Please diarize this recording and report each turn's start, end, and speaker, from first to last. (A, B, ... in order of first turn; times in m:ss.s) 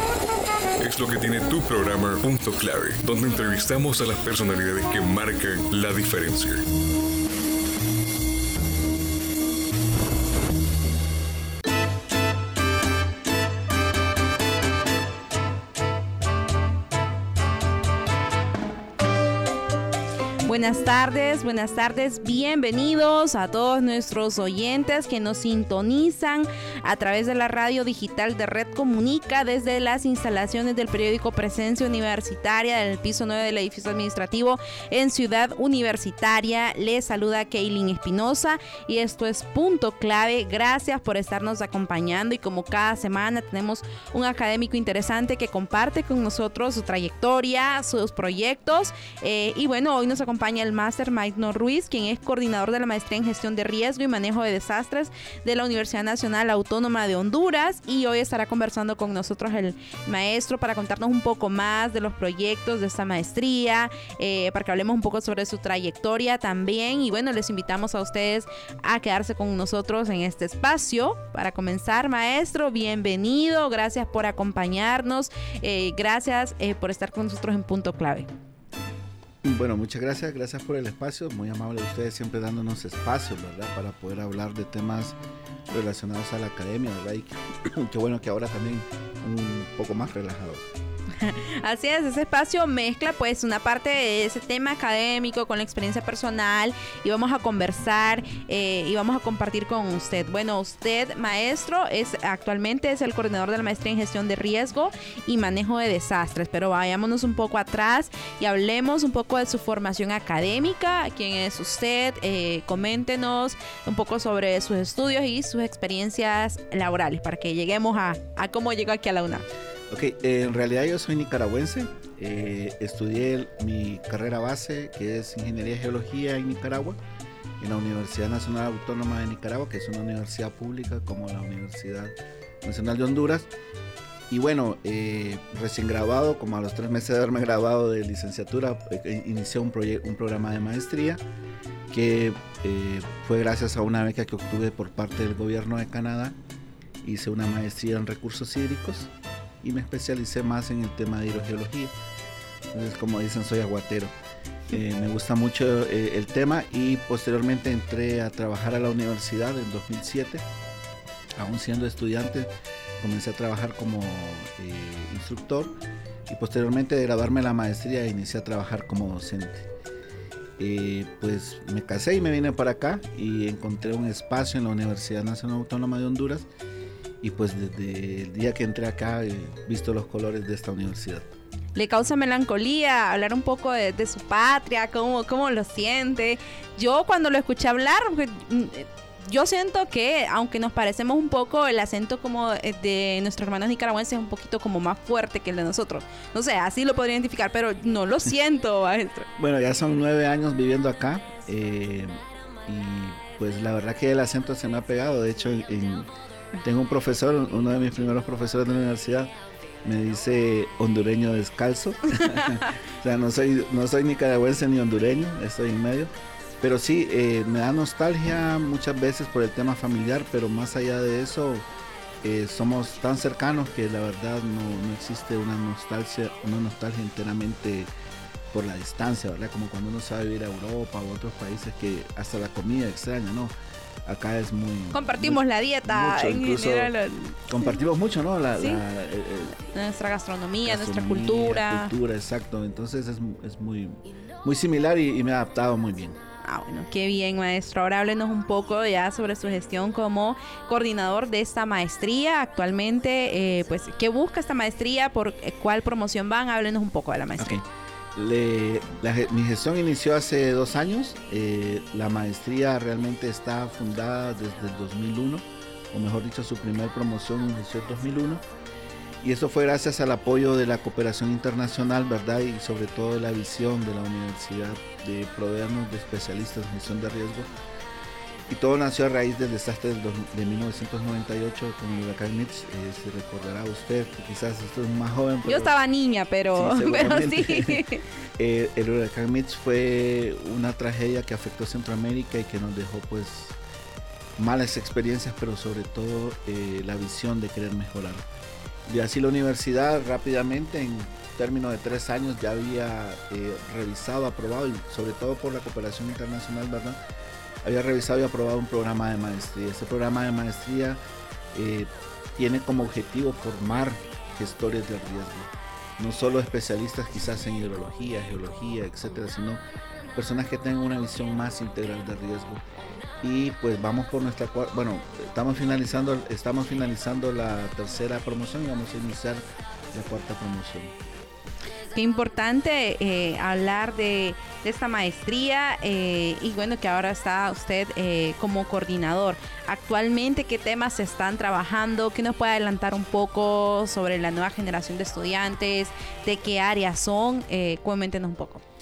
0:00.8-0:06.6 A
0:20.4-1:18.3 B
1:19.4-1:25.2 C
1:25.7-1:30.7 C
1:31.2-1:59.4 B
1:59.9-2:07.0 C
2:07.6-2:13.5 C
2:14.3-2:21.2 C
2:21.9-2:26.4 C
2:27.0-2:31.9 C
2:32.7-2:34.1 C
2:34.7-2:40.4 C
2:41.4-2:45.8 C
2:46.3-2:49.7 C
2:50.6-2:56.5 C
2:57.2-3:01.3 C
3:01.8-3:19.3 B
3:19.4-3:26.1 C
3:26.6-3:41.6 C
3:42.2-3:47.9 C
3:48.5-3:56.9 C
3:54.9-3:57.8 B
3:57.5-3:59.6 C
3:58.6-3:58.8 B
3:59.6-4:01.9 B
4:00.6-4:06.2 C
4:06.4-4:17.6 B
4:17.4-4:28.4 C
4:29.2-4:37.5 C
4:38.5-4:45.8 C
4:45.4-4:48.0 B
4:46.5-4:47.8 C
4:48.4-4:53.6 C
4:54.4-4:58.2 C
4:58.9-5:07.0 C
5:07.6-5:11.0 C
5:11.5-5:19.6 C
5:20.1-5:22.6 C
5:23.2-5:30.9 C
5:31.9-5:48.6 B